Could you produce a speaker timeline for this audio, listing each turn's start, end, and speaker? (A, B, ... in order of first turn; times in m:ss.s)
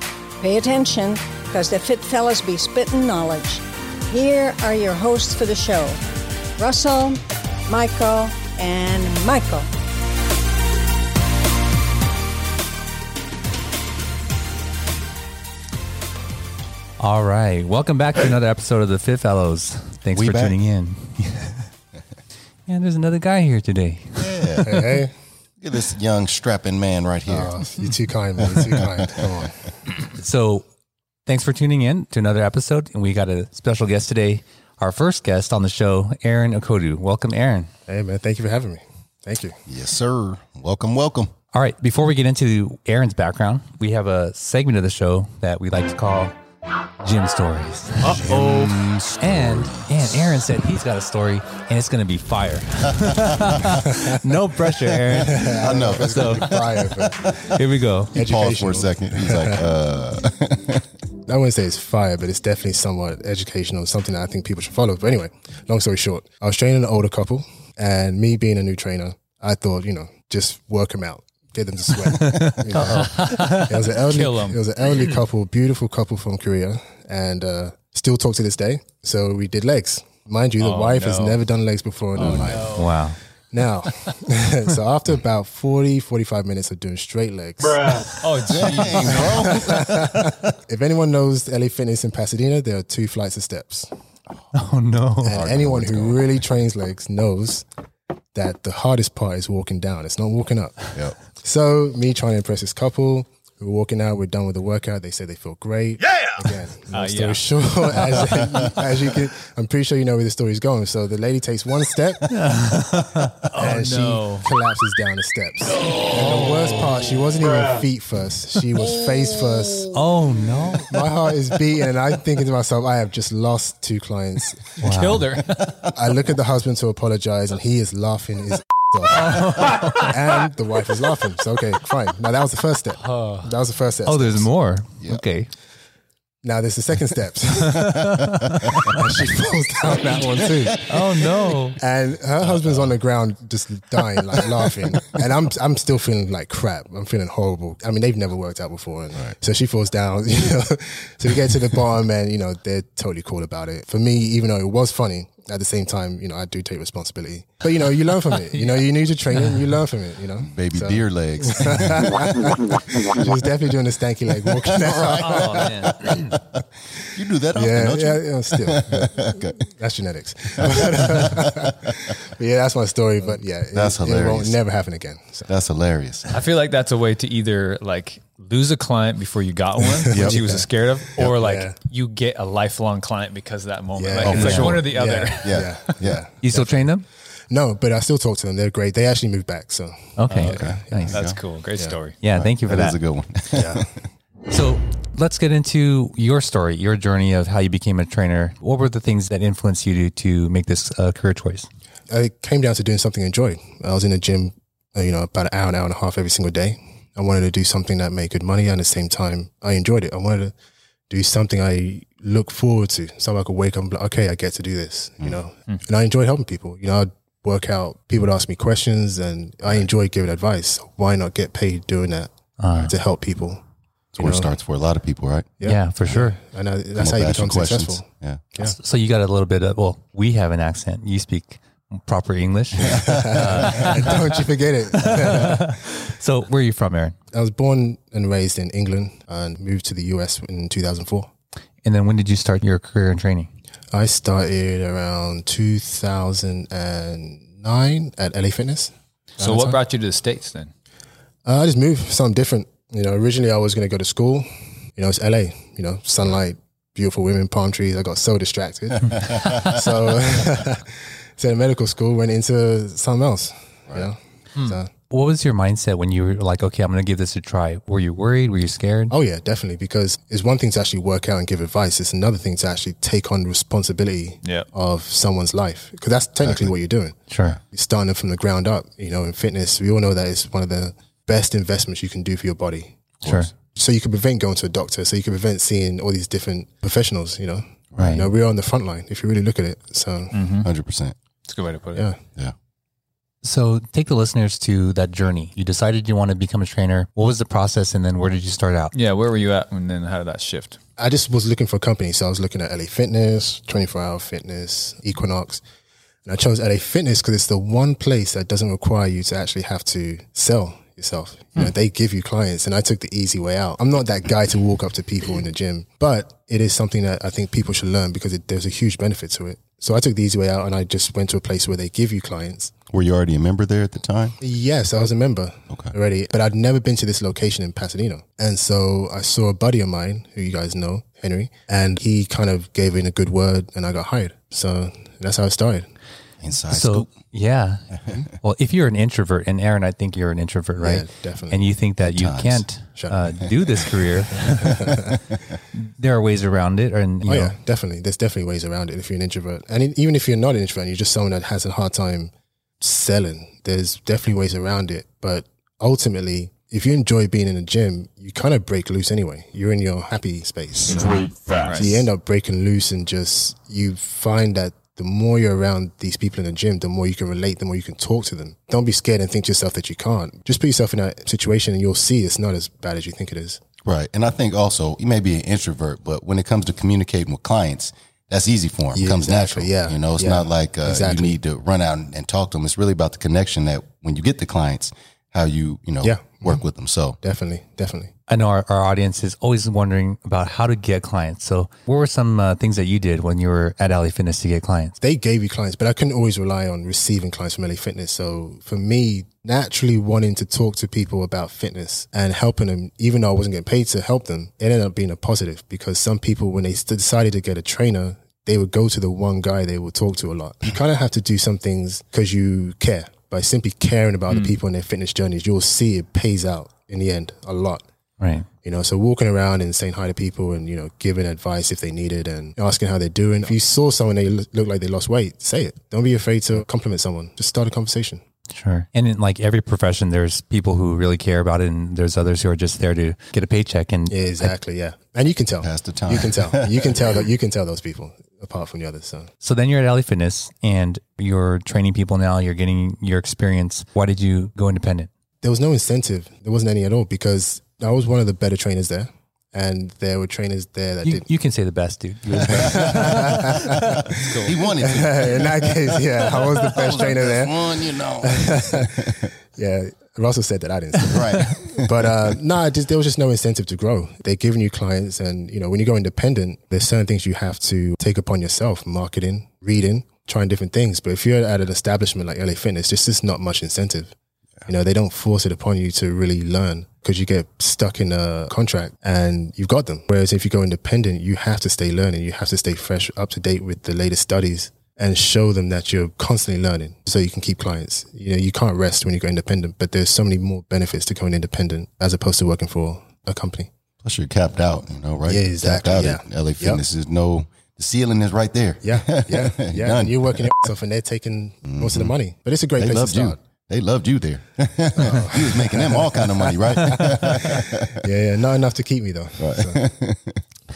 0:00.4-0:06.0 A
0:06.6-0:09.7 A
0:17.0-0:21.6 B
0:20.1-0:20.6 C
0:22.7-0:24.8 B
0:24.2-0:24.7 C
0:24.6-0:25.1 D
0:25.6-0:27.5 C
0:27.3-0:29.6 D
0:30.1-0:30.6 B
0:31.3-0:37.7 B
0:37.9-0:39.6 D
0:39.7-0:41.3 C
0:41.5-0:46.3 B
0:47.0-0:56.6 B
0:48.1-0:49.8 C
0:55.2-0:57.3 D
0:55.6-0:57.6 C
0:57.4-0:58.2 B
0:58.1-1:00.8 C
0:58.1-0:59.7 D
1:01.2-1:22.8 D
1:12.2-1:12.8 B
1:12.8-1:14.6 E
1:20.6-1:21.4 E
1:22.2-1:22.9 E
1:22.2-1:22.6 C
1:22.8-1:23.2 B
1:23.5-1:33.9 D
1:28.2-1:29.3 E
1:28.5-1:30.4 C
1:34.5-1:35.5 B
1:35.2-1:37.7 D
1:35.3-1:36.2 C
1:38.3-1:52.3 D
1:46.9-1:47.4 E
1:48.0-1:48.3 E
1:52.3-1:53.5 B
1:53.5-1:54.5 E
1:53.5-2:00.0 D
1:56.1-1:56.6 E
1:59.9-2:01.0 B
2:00.9-2:04.7 D
2:04.8-2:05.7 E
2:04.8-2:05.3 B
2:05.9-2:14.5 D
2:09.2-2:09.9 B
2:14.1-2:15.5 B
2:16.4-2:21.2 D
2:18.0-2:19.0 C
2:20.2-2:21.0 C
2:20.9-2:21.8 B
2:21.8-2:46.4 D
2:22.5-2:22.9 C
2:40.4-2:42.8 C
2:44.7-2:46.3 C
2:44.8-2:46.2 B
2:47.1-2:49.6 C
2:47.5-2:55.5 D
2:50.7-2:51.2 C
2:53.7-2:54.6 C
2:55.5-2:56.3 C
2:56.3-3:05.9 E
2:59.8-3:01.8 D
3:00.1-3:00.4 B
3:04.0-3:06.8 D
3:04.2-3:06.3 C
3:04.3-3:04.7 B
3:06.4-3:07.0 B
3:07.5-3:11.2 D
3:10.2-3:11.2 B
3:10.3-3:12.2 E
3:10.4-3:11.4 C
3:12.2-3:13.0 B
3:12.2-3:14.0 C
3:13.5-3:13.8 D
3:14.5-3:21.7 B
3:22.1-3:30.5 D
3:31.1-3:43.6 D
3:42.6-3:42.9 B
3:44.2-3:44.5 D
3:44.2-3:45.5 C
3:45.6-3:48.8 D
3:45.6-3:46.4 B
3:47.0-3:48.4 C
3:48.6-3:54.2 B
3:52.9-3:55.7 D
3:54.9-3:57.2 B
3:57.3-4:01.3 D
4:01.8-4:03.5 B
4:03.9-4:09.8 D
4:09.4-4:10.7 E
4:11.4-4:24.9 D
4:24.5-4:29.1 B
4:29.1-4:43.0 D
4:36.4-4:36.7 C
4:37.3-4:37.6 B
4:43.2-4:43.5 C
4:43.2-4:43.5 B
4:43.7-4:50.4 D
4:47.9-4:48.2 C
4:48.0-4:48.3 B
4:50.3-4:50.7 E
4:50.6-4:51.1 C
4:51.4-4:52.1 E
4:53.4-4:58.9 B
4:58.9-5:00.8 E
5:01.0-5:05.6 D
5:06.2-5:22.7 D
5:22.9-5:24.4 C
5:24.4-5:35.9 D
5:36.4-5:37.1 C
5:36.7-5:44.8 B
5:40.8-5:41.6 D
5:42.0-5:42.7 C
5:43.0-5:43.7 D
5:44.5-5:45.1 D
5:45.7-5:47.5 B
5:47.2-6:13.6 D
6:01.6-6:02.1 E
6:13.8-6:27.2 C
6:18.9-6:21.4 D
6:26.0-6:26.6 D
6:27.2-6:28.1 D
6:28.3-6:35.0 B
6:35.0-6:57.8 D
6:54.3-6:54.5 E
6:58.2-6:58.4 B
6:58.6-7:08.2 D
7:08.5-7:14.5 B
7:14.1-7:19.3 D
7:15.6-7:16.8 C
7:19.4-7:25.1 B
7:25.4-7:31.3 D
7:31.0-7:33.5 B
7:32.4-7:34.2 D
7:32.5-7:39.3 C
7:34.1-7:34.6 E
7:34.8-7:39.0 D
7:39.5-7:54.1 D
7:41.1-7:41.9 C
7:54.6-8:13.7 D
8:14.0-8:20.5 C
8:15.2-8:16.8 D
8:18.8-8:23.4 D
8:21.7-8:22.1 C
8:22.8-8:28.0 C
8:25.0-8:29.8 D
8:29.4-8:30.4 C